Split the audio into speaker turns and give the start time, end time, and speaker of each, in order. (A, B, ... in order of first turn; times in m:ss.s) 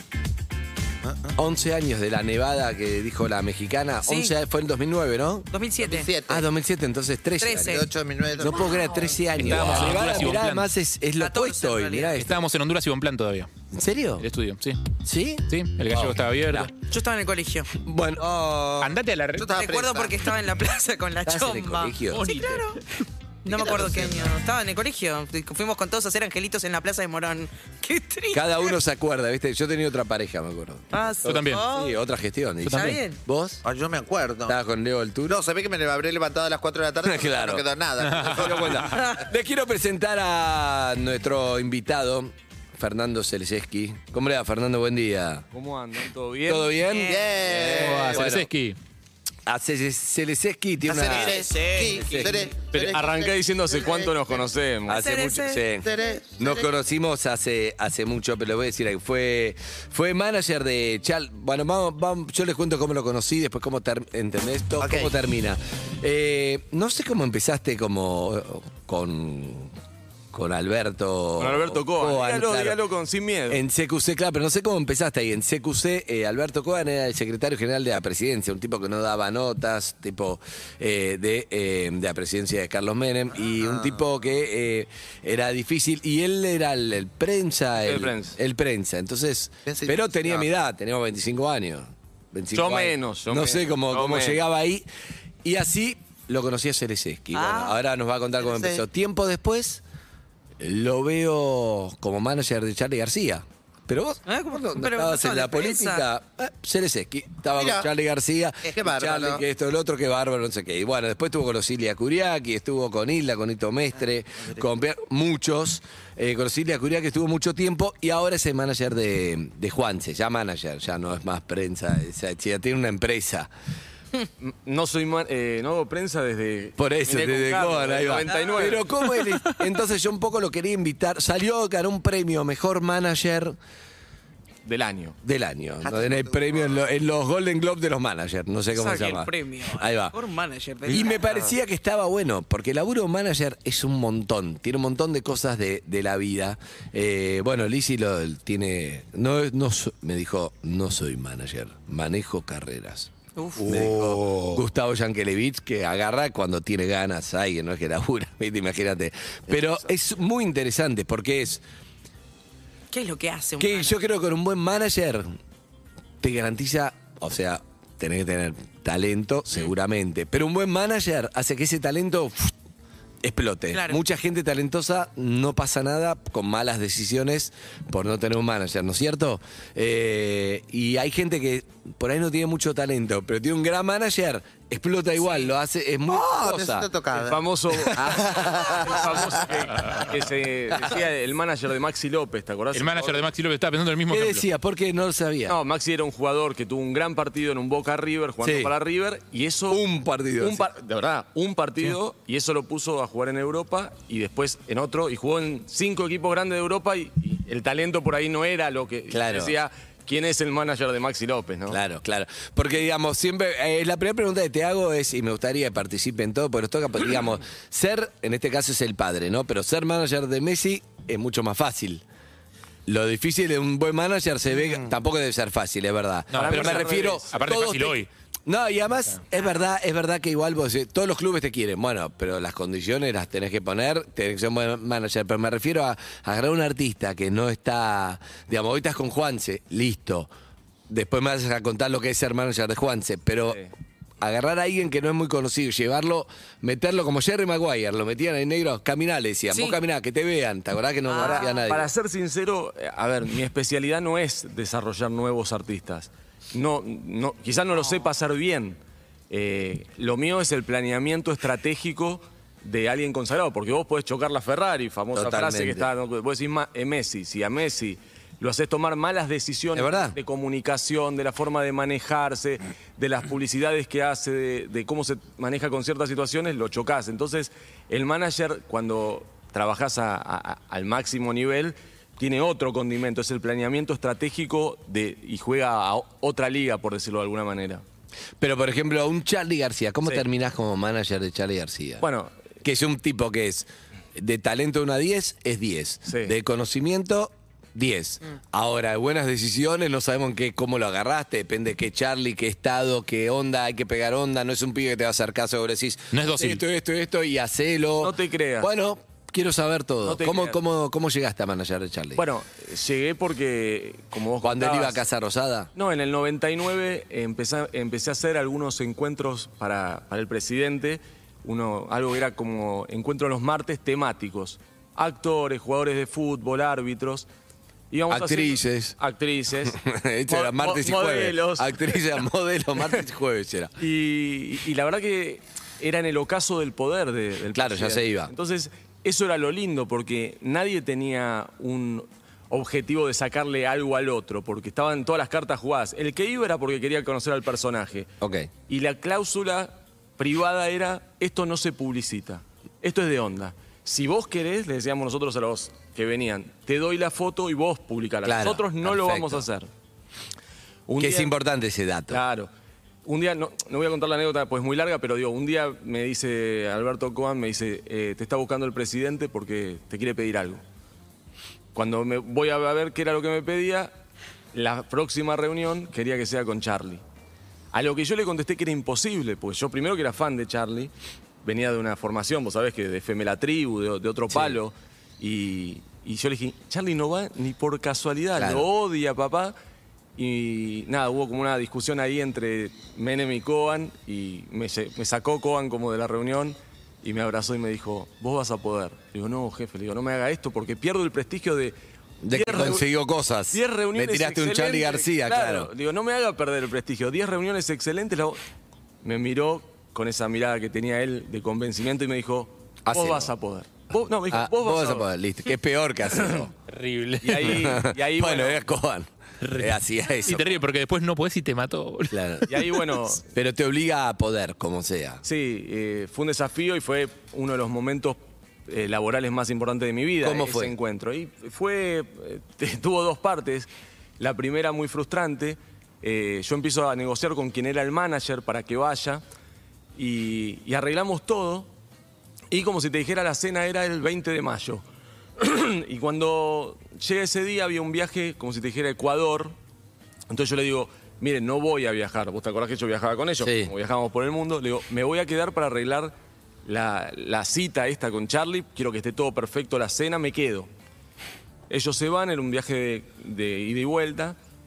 0:01.0-0:01.3 A
0:01.4-0:05.5 B
0:04.0-0:04.3 C
0:05.5-0:06.1 C
0:05.8-0:06.5 A
0:06.3-0:07.9 B
0:07.4-0:07.9 C
0:07.6-0:09.2 A
0:08.4-0:12.4 B
0:08.4-0:09.1 C
0:09.4-0:10.7 D
0:11.2-0:12.2 C
0:12.2-0:13.5 D
0:13.7-0:14.3 B
0:14.2-0:15.0 D
0:15.0-0:16.7 B
0:15.5-0:16.7 D
0:16.8-0:17.8 C
0:17.8-0:18.2 B
0:18.2-0:20.2 A
0:18.8-0:19.5 D
0:19.5-0:28.8 C
0:21.2-0:22.3 B
0:22.1-0:22.8 D
0:23.5-0:24.3 A
0:23.7-0:23.9 B
0:28.3-0:30.9 B
0:30.9-0:31.9 C
0:31.2-0:31.7 D
0:31.5-0:33.6 B
0:32.6-0:33.0 D
0:32.7-0:33.2 C
0:33.6-0:34.6 A
0:34.5-0:35.4 B
0:35.2-0:39.2 A
0:37.0-0:37.6 B
0:38.0-0:39.0 D
0:38.2-0:45.4 B
0:45.5-0:46.8 E
0:46.5-0:48.5 B
0:46.8-0:47.4 C
0:47.0-0:48.3 A
0:47.5-0:48.8 D
0:49.5-0:52.5 B
0:50.8-0:54.4 A
0:51.5-0:52.0 C
0:52.7-0:55.2 E
0:54.9-0:55.7 C
0:54.9-0:55.9 B
0:55.8-0:56.7 A
0:56.4-1:09.7 B
1:04.8-1:05.1 A
1:10.3-1:12.8 B
1:11.4-1:13.6 E
1:13.5-1:34.9 B
1:23.6-1:24.0 A
1:27.8-1:28.4 E
1:29.7-1:30.5 A
1:32.5-1:34.4 E
1:35.4-1:39.8 B
1:37.4-1:37.8 C
1:38.4-1:38.8 A
1:40.6-2:03.5 B
1:44.3-1:46.1 C
1:47.5-1:47.9 A
1:48.6-1:49.4 A
2:04.4-2:09.0 E
2:06.8-2:13.6 B
2:14.6-2:15.2 E
2:15.2-2:20.2 B
2:15.8-2:16.8 A
2:18.7-2:21.2 C
2:20.8-2:41.6 B
2:20.9-2:21.4 A
2:33.4-2:33.7 C
2:33.6-2:34.6 A
2:42.9-2:44.0 C
2:43.6-2:45.3 B
2:46.2-2:52.6 B
2:53.2-3:06.9 B
2:53.7-2:54.0 C
3:06.1-3:09.4 A
3:07.1-3:13.3 E
3:08.0-3:09.1 B
3:12.7-3:14.4 D
3:14.1-3:15.6 B
3:15.5-3:19.8 E
3:18.4-3:18.7 B
3:19.7-3:20.7 B
3:20.4-3:31.8 E
3:29.1-3:29.6 B
3:31.7-3:42.0 B
3:42.9-4:00.3 B
3:46.3-3:48.1 D
3:46.3-3:47.6 E
4:00.9-4:03.6 B
4:03.4-4:03.7 E
4:04.2-4:11.9 B
4:09.5-4:09.8 C
4:11.1-4:11.6 C
4:11.2-4:18.8 E
4:19.3-4:47.8 E
4:25.1-4:25.9 B
4:29.7-4:30.2 B
4:48.4-4:52.0 B
4:52.0-4:52.3 E
4:52.6-5:12.2 B
4:56.1-4:56.4 E
5:06.1-5:06.6 D
5:08.0-5:08.7 E
5:10.0-5:10.6 E
5:12.2-5:15.0 E
5:14.4-5:15.7 B
5:15.8-5:27.3 E
5:27.9-5:32.0 E
5:28.1-5:29.0 B
5:29.6-5:33.8 B
5:33.8-5:48.1 E
5:37.6-5:38.3 B
5:48.2-5:48.5 B
5:48.7-5:59.7 E
5:58.2-5:59.4 B
6:00.9-6:01.4 E
6:01.0-6:02.2 B
6:02.1-6:02.5 E
6:03.0-6:10.6 E
6:11.8-6:13.9 E
6:14.5-6:17.0 E
6:17.7-6:20.9 E
6:21.4-6:29.6 E
6:24.3-6:24.6 B
6:28.4-6:28.7 B
6:30.2-6:41.8 E
6:42.2-6:45.7 B
6:42.3-6:42.9 E
6:43.5-6:48.4 E
6:49.0-6:55.1 E
6:52.8-6:53.3 B
6:54.3-6:56.5 B
6:56.2-6:56.4 E
6:56.7-6:57.6 D
6:57.2-6:58.6 E
6:57.4-7:00.6 B
6:59.4-7:02.6 D
7:02.1-7:02.5 B
7:02.5-7:03.2 E
7:03.2-7:05.2 B
7:05.2-7:19.2 E
7:10.2-7:10.7 B
7:20.0-7:21.7 E
7:22.5-7:24.8 E
7:25.4-7:29.6 E
7:30.3-7:36.1 E
7:33.4-7:33.7 B
7:36.6-7:40.7 E
7:41.7-7:44.4 E